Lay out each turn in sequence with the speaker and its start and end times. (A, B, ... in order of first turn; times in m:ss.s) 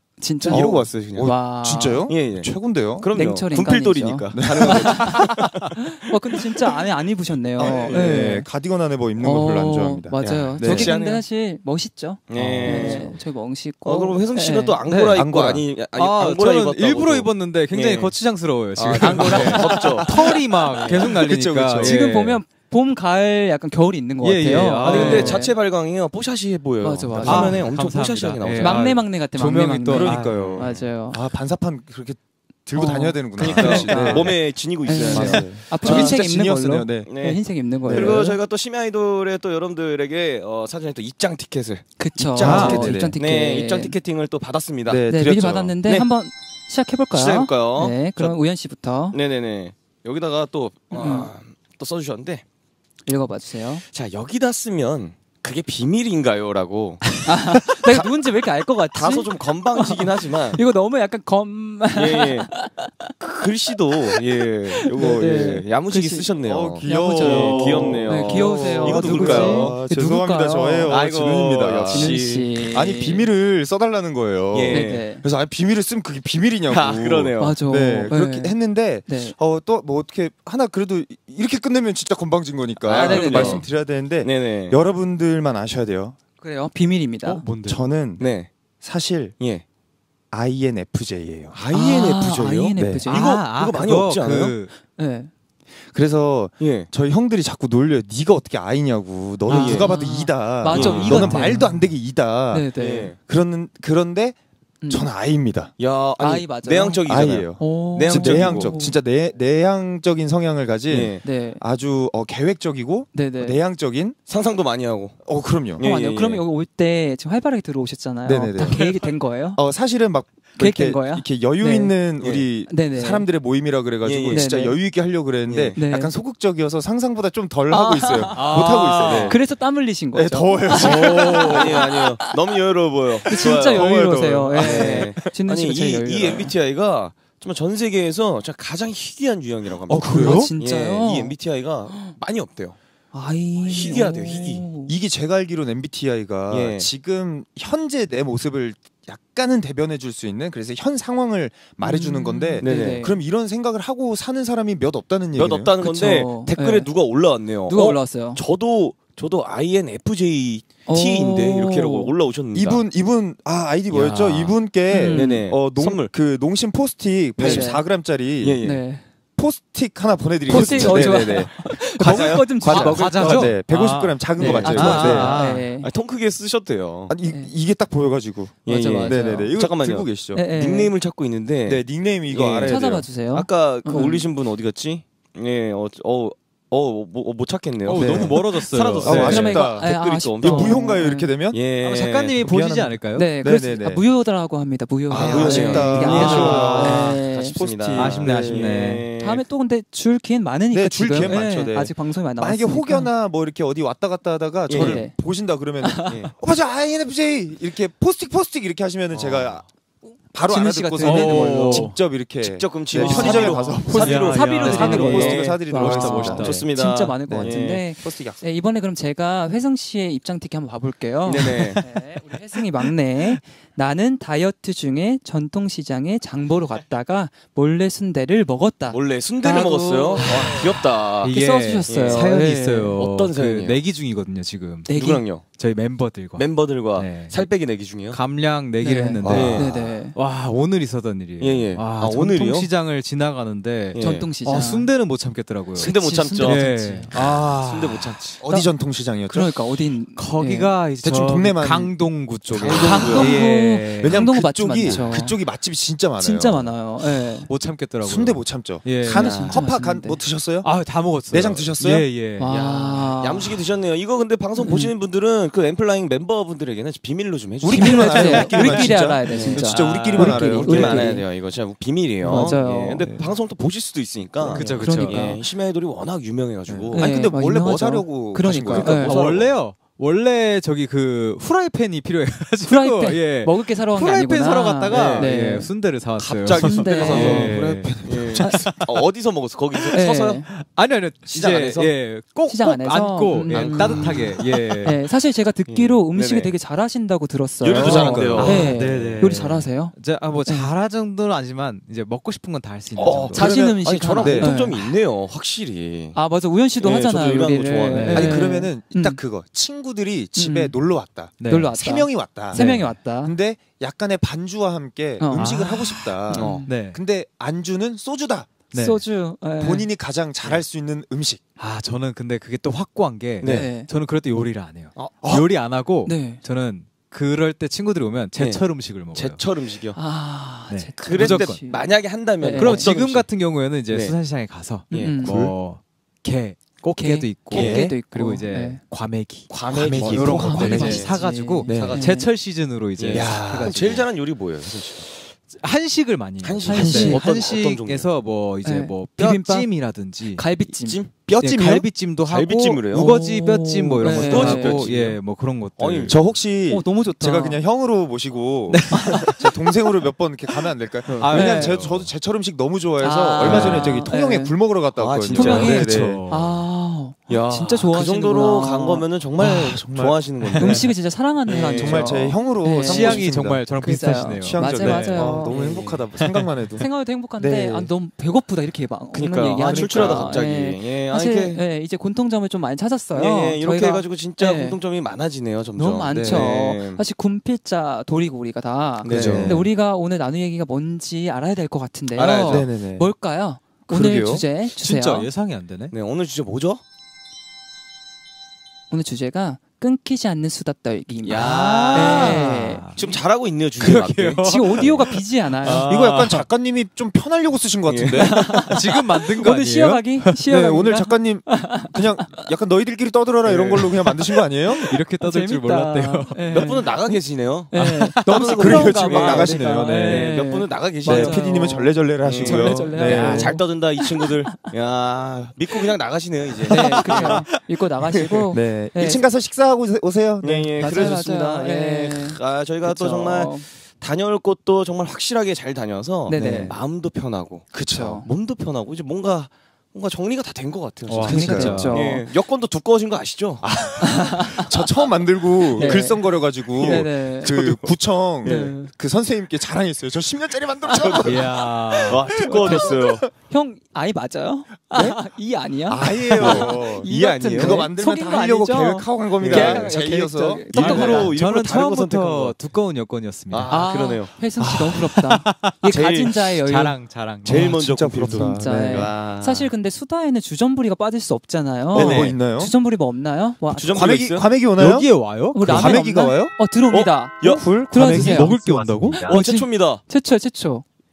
0:00.2-0:02.1 A
0:00.4-0:01.4 B
0:00.5-0:03.1 C
0:02.1-0:05.9 B
0:03.1-0:08.5 A
0:04.3-0:05.3 C
0:07.6-0:11.0 C
0:07.6-0:08.2 B
0:09.2-0:14.8 A
0:10.2-0:11.2 B
0:12.3-0:13.2 B
0:12.4-0:13.0 D
0:13.8-0:18.1 B
0:14.9-0:15.2 D
0:15.1-0:15.6 C
0:15.9-0:22.4 D
0:18.8-0:21.2 B
0:19.1-0:20.2 C
0:20.8-0:22.0 C
0:21.8-0:25.5 A
0:24.2-0:25.4 D
0:24.8-0:28.9 B
0:26.8-0:27.7 A
0:27.1-0:27.5 C
0:27.2-0:30.6 D
0:28.6-0:31.2 A
0:29.9-0:37.1 C
0:30.4-0:30.8 B
0:32.7-0:38.4 A
0:33.4-0:36.2 B
0:33.5-0:34.3 D
0:37.0-0:45.0 B
0:37.8-0:38.2 C
0:42.0-0:44.0 A
0:42.2-0:43.2 C
0:42.4-0:42.9 D
0:44.9-0:45.8 C
0:45.1-0:49.2 A
0:47.1-0:48.4 B
0:49.1-0:52.4 B
0:50.9-0:51.3 A
0:53.0-0:53.8 A
0:53.9-0:58.0 B
0:57.2-1:03.1 A
0:58.9-1:00.6 B
1:01.9-1:02.5 B
1:03.2-1:09.8 B
1:04.7-1:06.3 A
1:06.4-1:26.2 C
1:06.8-1:10.9 A
1:10.9-1:12.8 B
1:11.9-1:13.3 A
1:14.5-1:15.0 B
1:14.7-1:15.2 A
1:16.7-1:17.6 B
1:17.4-1:18.5 A
1:19.0-1:19.3 A
1:22.8-1:23.7 B
1:22.9-1:23.7 A
1:24.2-1:24.8 B
1:26.4-1:27.4 A
1:27.2-1:27.8 D
1:27.6-1:28.2 C
1:28.2-1:28.5 B
1:28.8-1:29.4 C
1:29.4-1:29.6 B
1:30.3-1:33.1 C
1:31.7-1:33.3 A
1:33.1-1:34.5 B
1:33.1-1:34.7 D
1:34.8-1:35.3 A
1:35.9-1:44.4 C
1:36.6-1:36.9 B
1:39.5-1:41.9 A
1:39.5-1:39.9 B
1:40.7-1:41.4 B
1:42.5-1:43.1 A
1:42.8-1:43.2 B
1:44.8-1:45.1 A
1:44.9-1:45.7 C
1:45.8-1:48.7 B
1:46.2-1:47.0 A
1:47.1-1:54.2 C
1:47.6-1:49.0 A
1:50.9-1:51.2 B
1:51.2-1:51.6 A
1:53.1-1:53.6 A
1:54.3-1:55.2 B
1:55.2-1:55.8 C
1:55.8-1:56.4 B
1:55.8-1:59.6 A
1:58.2-1:58.9 C
1:58.6-1:59.1 D
1:59.6-2:09.4 C
2:00.6-2:01.9 A
2:02.2-2:02.4 B
2:02.7-2:03.3 A
2:04.0-2:04.5 B
2:04.3-2:04.8 A
2:05.5-2:05.8 B
2:05.7-2:06.1 A
2:07.7-2:12.4 A
2:08.3-2:09.4 D
2:10.1-2:11.9 C
2:10.7-2:11.8 D
2:11.4-2:22.8 B
2:13.2-2:16.5 A
2:13.4-2:15.2 C
2:19.9-2:20.5 D
2:19.9-2:20.5 C
2:20.1-2:21.3 A
2:21.9-2:22.1 A
2:23.1-2:24.9 A
2:23.6-2:24.6 B
2:24.8-2:35.7 C
2:26.5-2:26.9 B
2:31.8-2:33.2 A
2:32.6-2:33.1 B
2:35.4-2:42.8 B
2:35.8-2:36.9 A
2:37.7-2:38.4 A
2:40.8-2:42.1 A
2:42.5-2:48.6 C
2:43.9-2:44.5 D
2:44.9-2:45.5 A
2:45.1-2:46.1 B
2:47.4-2:47.8 A
2:47.4-2:47.7 B
2:48.4-2:48.8 B
2:48.6-2:49.0 A
2:49.4-2:55.4 C
2:50.5-2:53.5 A
2:50.5-2:53.4 B
2:52.6-2:55.7 D
2:54.4-2:55.9 A
2:54.4-2:57.1 B
2:57.1-3:00.4 C
2:57.2-2:57.5 A
2:58.6-2:59.5 A
2:58.6-3:11.0 B
3:00.3-3:00.9 A
3:01.6-3:03.0 C
3:02.6-3:04.3 A
3:07.8-3:09.6 D
3:07.9-3:08.5 C
3:09.0-3:11.6 C
3:09.1-3:11.3 A
3:11.5-3:12.4 B
3:11.8-3:13.3 D
3:12.4-3:14.0 C
3:13.1-3:17.6 A
3:15.1-3:18.8 C
3:15.1-3:19.4 B
3:15.5-3:17.1 D
3:17.9-3:19.1 D
3:19.2-3:23.1 A
3:20.7-3:29.7 C
3:24.7-3:25.0 B
3:24.7-3:25.1 A
3:25.8-3:26.1 A
3:26.1-3:26.3 B
3:29.1-3:29.5 B
3:30.3-3:36.6 C
3:30.4-3:31.9 A
3:31.0-3:32.0 D
3:32.4-3:35.6 B
3:32.9-3:36.7 D
3:33.0-3:50.7 A
3:36.4-3:37.8 B
3:37.3-3:38.4 C
3:41.2-3:41.9 B
3:48.9-3:51.3 B
3:49.5-3:54.9 D
3:51.2-3:53.0 A
3:51.9-3:52.4 B
3:53.0-3:53.8 B
3:54.8-3:55.2 A
3:54.9-3:55.4 B
3:55.4-3:57.5 D
3:56.4-3:58.2 B
3:58.1-4:08.3 D
3:58.8-4:00.2 A
3:59.2-3:59.7 C
3:59.2-3:59.9 B
4:01.4-4:02.7 B
4:03.9-4:04.3 B
4:04.0-4:04.9 A
4:05.8-4:07.1 A
4:05.8-4:08.4 B
4:08.4-4:09.5 C
4:09.2-4:10.7 A
4:10.2-4:14.2 D
4:11.0-4:13.4 C
4:12.6-4:13.3 B
4:12.8-4:15.4 A
4:14.0-4:16.7 C
4:14.8-4:15.1 D
4:16.2-4:17.5 A
4:17.3-4:19.6 D
4:18.0-4:22.1 C
4:19.2-4:20.2 A
4:19.2-4:19.4 B
4:20.6-4:22.5 D
4:22.4-4:23.6 A
4:22.5-4:37.1 B
4:24.6-4:24.9 A
4:27.6-4:31.2 C
4:27.7-4:31.2 A
4:29.3-4:30.4 D
4:32.2-4:33.3 C
4:32.2-4:33.0 A
4:34.5-4:35.4 D
4:34.5-4:35.4 A
4:36.7-4:39.2 C
4:36.9-4:39.2 A
4:38.5-4:39.5 B
4:39.0-4:49.0 D
4:42.6-4:45.7 A
4:44.9-4:45.3 B
4:46.2-4:50.4 B
4:46.6-4:47.5 A
4:46.9-4:48.8 C
4:49.9-4:50.5 A
4:50.5-4:55.0 D
4:51.3-4:51.9 C
4:52.5-5:00.7 A
4:53.5-4:54.5 B
4:55.7-4:56.5 B
4:57.6-4:59.2 B
4:57.7-4:58.8 C
4:57.8-5:03.4 D
5:03.0-5:06.2 B
5:03.3-5:04.5 C
5:03.3-5:04.9 A
5:06.1-5:09.2 A
5:06.8-5:08.4 B
5:07.9-5:08.4 D
5:08.1-5:18.6 C
5:10.4-5:10.8 A
5:11.4-5:11.7 D
5:11.5-5:13.3 A
5:12.5-5:13.0 D
5:15.2-5:16.7 A
5:15.3-5:16.0 D
5:16.3-5:16.7 B
5:16.6-5:17.0 D
5:18.7-5:19.0 D
5:18.7-5:19.9 A
5:19.6-5:21.4 C
5:21.6-5:29.4 D
5:23.4-5:23.7 B
5:23.4-5:23.9 A
5:25.2-5:25.5 C
5:26.0-5:26.4 A
5:28.4-5:30.0 B
5:29.9-5:32.9 A
5:30.7-5:31.6 D
5:31.0-5:33.3 B
5:32.6-5:44.1 D
5:33.9-5:34.2 B
5:34.9-5:35.2 B
5:34.9-5:35.4 A
5:35.2-5:35.6 C
5:37.0-5:38.8 A
5:37.5-5:37.9 C
5:39.5-5:41.2 B
5:39.7-5:41.2 C
5:40.2-5:42.3 A
5:41.7-5:42.0 C
5:41.7-5:42.1 B
5:43.0-5:45.0 B
5:43.1-5:43.9 C
5:44.7-5:50.4 D
5:46.4-5:48.1 B
5:46.7-5:47.3 A
5:46.9-5:47.2 C
5:48.6-5:51.0 A
5:50.7-5:53.1 B
5:51.4-5:56.2 D
5:52.9-5:54.9 A
5:54.0-5:55.2 B
5:55.8-5:56.2 B
5:56.0-6:06.2 C
5:56.7-5:57.6 A
5:58.7-5:59.8 D
6:01.1-6:01.3 B
6:01.1-6:02.1 D
6:01.3-6:01.8 A
6:03.0-6:04.5 A
6:03.4-6:04.0 D
6:03.4-6:03.8 B
6:05.0-6:06.2 B
6:05.3-6:09.1 A
6:05.3-6:06.6 D
6:07.3-6:10.9 B
6:09.4-6:10.2 C
6:10.4-6:15.6 A
6:10.5-6:10.8 D
6:11.5-6:12.2 B
6:11.6-6:17.9 C
6:12.8-6:15.4 D
6:15.4-6:16.0 B
6:16.2-6:16.5 D
6:16.8-6:24.8 A
6:19.1-6:21.6 B
6:19.6-6:20.4 C
6:23.1-6:27.0 B
6:25.8-6:35.3 A
6:26.1-6:26.5 C
6:29.0-6:29.6 B
6:29.0-6:29.5 D
6:29.1-6:29.7 C
6:32.1-6:32.7 B
6:32.5-6:33.1 C
6:33.9-6:34.4 C
6:34.7-6:35.9 D
6:35.9-6:36.8 B
6:38.9-6:42.8 A
6:41.2-6:42.4 B
6:41.3-6:43.1 D
6:42.9-6:45.0 B
6:43.8-6:46.4 D
6:44.4-6:45.9 A
6:45.6-6:48.6 C
6:45.7-6:46.4 B
6:47.9-6:48.7 B
6:48.2-6:52.4 A
6:48.7-6:50.3 D
6:50.4-6:54.9 C
6:53.4-6:53.9 B
6:54.7-6:57.2 A
6:54.8-6:56.8 D
6:56.5-6:59.5 B
6:57.7-7:04.7 A
6:57.7-7:00.3 D
6:58.6-7:00.2 C
7:00.1-7:01.5 B
7:01.0-7:03.6 C
7:02.2-7:07.4 B
7:06.7-7:09.2 A
7:06.7-7:07.1 C
7:08.5-7:11.1 C
7:10.4-7:23.6 B
7:10.8-7:13.7 A
7:16.3-7:16.8 A
7:16.4-7:16.8 C
7:17.7-7:18.2 C
7:17.9-7:18.3 A
7:21.1-7:22.1 D
7:21.2-7:22.3 A
7:21.3-7:22.0 C
7:23.6-7:33.2 C
7:24.0-7:24.7 A
7:25.8-7:27.5 A
7:25.8-7:28.7 B
7:28.4-7:28.9 A
7:30.9-7:31.2 A
7:30.9-7:31.4 B
7:31.2-7:32.3 D
7:32.1-7:33.3 B
7:32.4-7:41.3 A
7:34.9-7:35.2 C
7:35.9-7:41.3 C
7:36.3-7:36.6 D
7:37.4-7:37.8 B
7:39.4-7:39.9 B
7:40.7-7:42.5 B
7:40.9-7:43.8 D
7:43.5-7:44.3 B
7:43.7-7:47.0 A
7:44.6-7:45.8 D
7:45.8-7:46.4 B
7:46.6-7:48.2 D
7:47.4-7:49.2 C
7:47.4-7:49.7 B
7:48.3-7:54.1 A
7:51.9-7:52.3 B
7:51.9-7:52.7 C
7:53.7-7:54.5 B
7:53.9-7:56.5 C
7:54.8-7:56.0 D
7:55.5-8:00.8 A
7:56.9-7:58.5 B
7:57.8-7:59.3 D
7:59.2-8:00.0 B